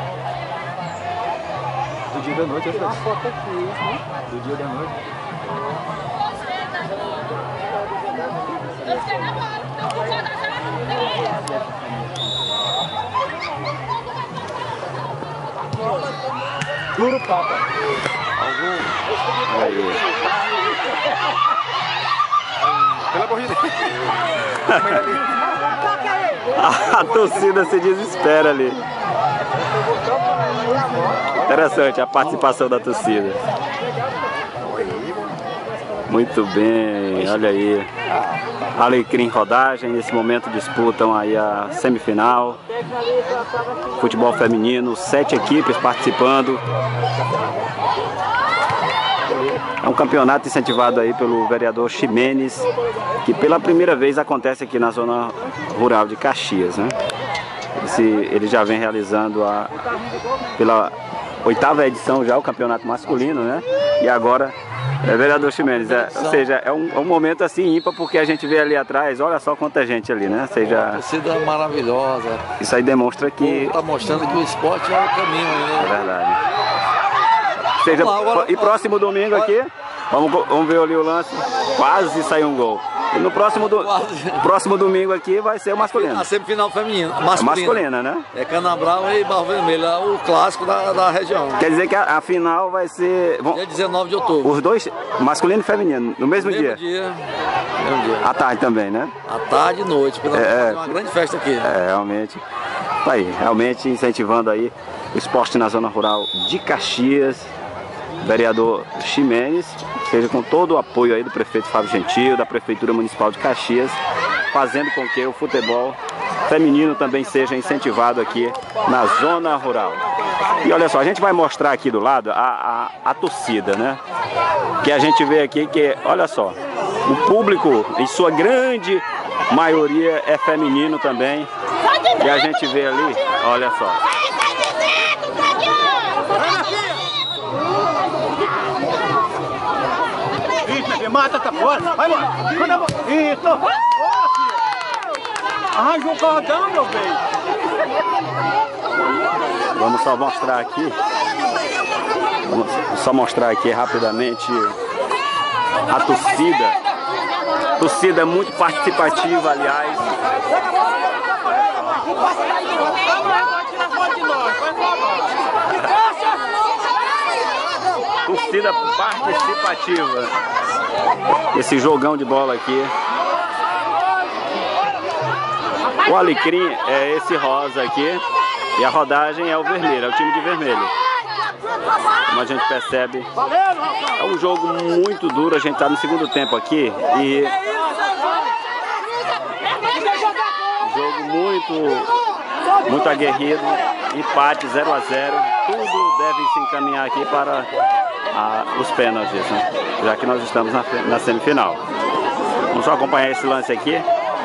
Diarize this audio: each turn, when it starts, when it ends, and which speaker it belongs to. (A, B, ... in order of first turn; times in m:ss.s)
0:02.1-0:04.9 A
0:17.1-0:17.4 A
0:18.4-0:18.9 B
0:19.5-0:20.0 C
0:23.1-0:23.7 A
0:24.6-0:25.1 C
0:26.5-0:28.8 C
0:31.4-0:33.4 C
0:36.1-0:37.9 C
0:38.7-0:42.6 C
0:44.0-0:46.6 C
0:49.8-0:52.7 C
0:53.2-0:56.9 C
0:57.8-0:59.7 C
1:00.6-1:11.0 C
1:05.5-1:06.5 B
1:10.6-1:12.4 B
1:12.6-1:13.8 C
1:13.4-1:16.0 B
1:15.8-1:16.4 C
1:17.8-1:19.5 B
1:17.8-1:26.3 C
1:23.6-1:24.4 B
1:25.8-1:31.7 B
1:27.4-1:28.2 C
1:31.6-1:33.6 C
1:33.5-1:34.6 B
1:34.4-1:36.8 C
1:36.4-1:37.3 B
1:37.8-1:38.3 B
1:38.2-1:39.1 C
1:39.2-1:41.7 B
1:40.3-1:41.0 C
1:41.6-1:42.4 C
1:43.0-1:47.5 C
1:48.2-1:54.0 C
1:54.5-2:00.0 C
2:00.6-2:04.0 C
2:04.8-2:11.5 C
2:12.2-2:14.0 C
2:20.6-2:23.6 A
2:25.8-2:27.2 A
2:29.7-2:31.0 C
2:32.4-2:34.8 C
2:35.9-2:36.8 C
2:37.8-2:40.1 C
2:41.6-2:42.0 C
2:48.2-2:50.3 C
2:51.5-2:52.9 C
2:56.0-2:58.2 C
2:58.8-3:00.9 C
3:02.3-3:03.3 C
3:04.2-3:07.6 C
3:10.8-3:12.1 C
3:12.8-3:17.7 C
3:18.3-3:21.8 C
3:22.7-3:24.0 C